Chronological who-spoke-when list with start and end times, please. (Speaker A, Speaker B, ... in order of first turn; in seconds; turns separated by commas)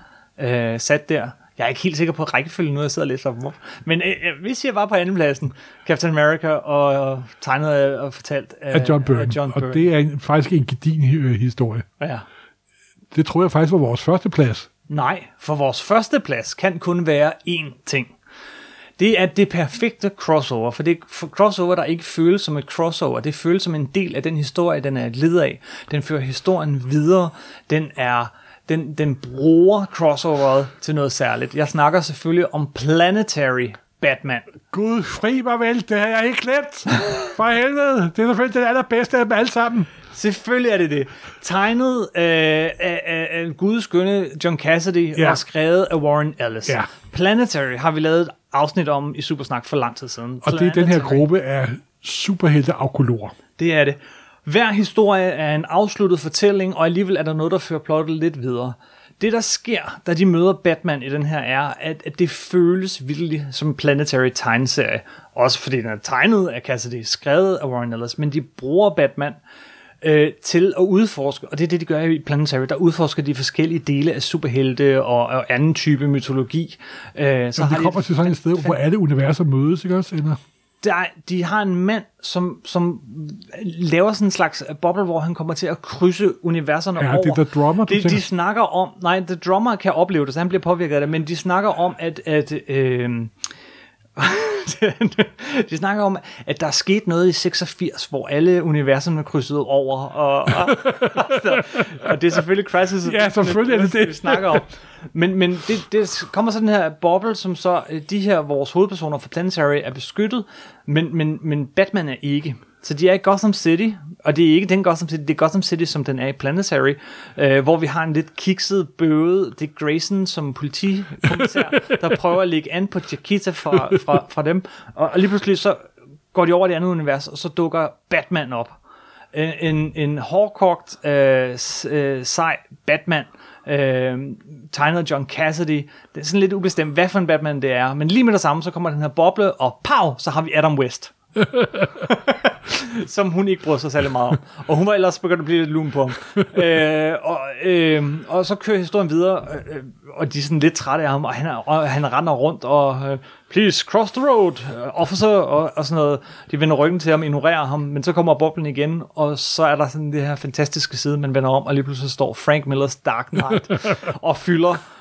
Speaker A: 0.4-9.9, Speaker B: 8.7-11.9, Speaker A: 12.0-12.3, Speaker B: 13.1-14.7, Speaker A: 14.9-18.1, Speaker A: 19.0-34.5, Speaker B: 34.7-39.9, Speaker A: 40.1-51.2, Speaker B: 50.4-53.3, Speaker A: 53.6-69.4, Speaker A: 70.0-78.8, Speaker B: 77.6-80.4, Speaker A: 80.8-93.3, Speaker B: 87.0-88.2, Speaker A: 94.2-125.8, Speaker B: 100.7-102.1, Speaker B: 103.0-104.6, Speaker A: 126.3-128.8, Speaker A: 129.3-141.1, Speaker B: 141.5-141.9, Speaker A: 141.9-164.8